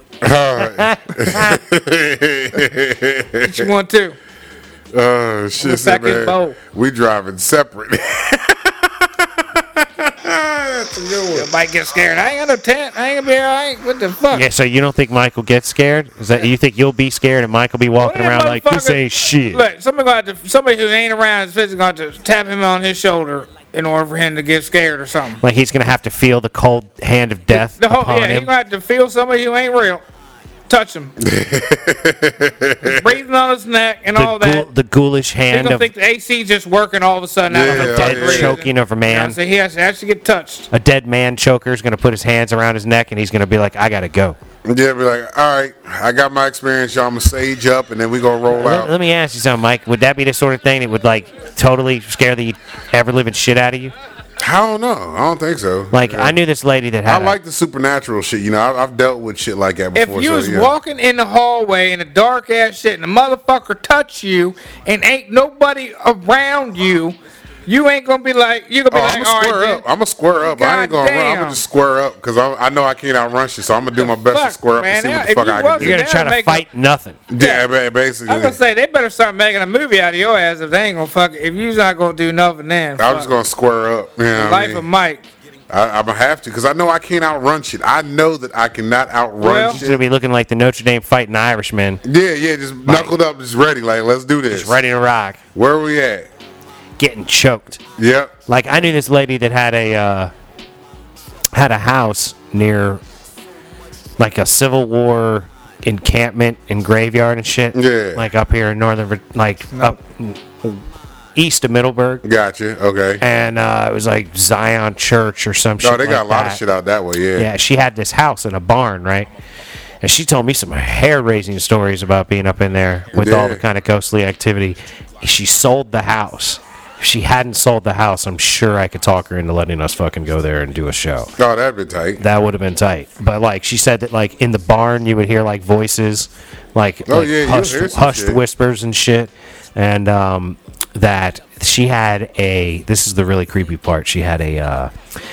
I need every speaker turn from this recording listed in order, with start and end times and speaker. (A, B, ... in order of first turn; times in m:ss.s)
0:00.2-0:03.7 A
0:00.6-0:01.6 B
0:03.5-0:04.2 C
0:04.9-0:11.5 A
0:05.6-0:06.6 C
0:11.3-0:14.5 C
0:14.3-0:19.6 B
0:18.0-0:25.4 C
0:25.4-0:28.5 B
0:27.5-0:30.0 C
0:30.7-0:31.1 C
0:31.2-0:33.1 A
0:32.8-0:34.7 C
0:34.1-0:35.9 B
0:35.5-0:40.7 C
0:37.5-0:38.6 A
0:37.6-0:39.4 B
0:40.7-0:44.4 B
0:44.6-0:48.9 A
0:48.5-0:53.9 B
0:54.4-0:56.4 A
0:55.9-0:57.3 B
0:57.0-1:00.7 A
0:59.9-1:09.8 C
1:08.9-1:16.0 A
1:10.4-1:11.6 C
1:14.0-1:16.6 C
1:15.8-1:17.2 B
1:17.3-1:18.6 A
1:17.4-1:17.7 C
1:18.3-1:23.3 C
1:23.0-1:24.8 A
1:24.3-1:25.2 C
1:25.7-1:30.0 A
1:29.4-1:29.8 C
1:29.6-1:32.0 B
1:32.0-1:34.8 A
1:32.8-1:33.1 B
1:34.5-1:35.4 B
1:35.5-1:36.3 A
1:37.0-1:37.8 B
1:38.0-1:38.3 A
1:38.5-1:40.3 B
1:41.5-1:43.0 B
1:44.2-1:50.8 B
1:47.7-1:48.2 A
1:51.3-1:52.2 B
1:52.2-1:53.2 A
1:53.2-1:56.6 B
1:55.8-1:57.5 A
1:57.4-1:59.3 B
2:00.0-2:11.3 B
2:03.1-2:03.6 A
2:11.4-2:12.2 A
2:12.2-2:24.9 B
2:17.1-2:18.4 A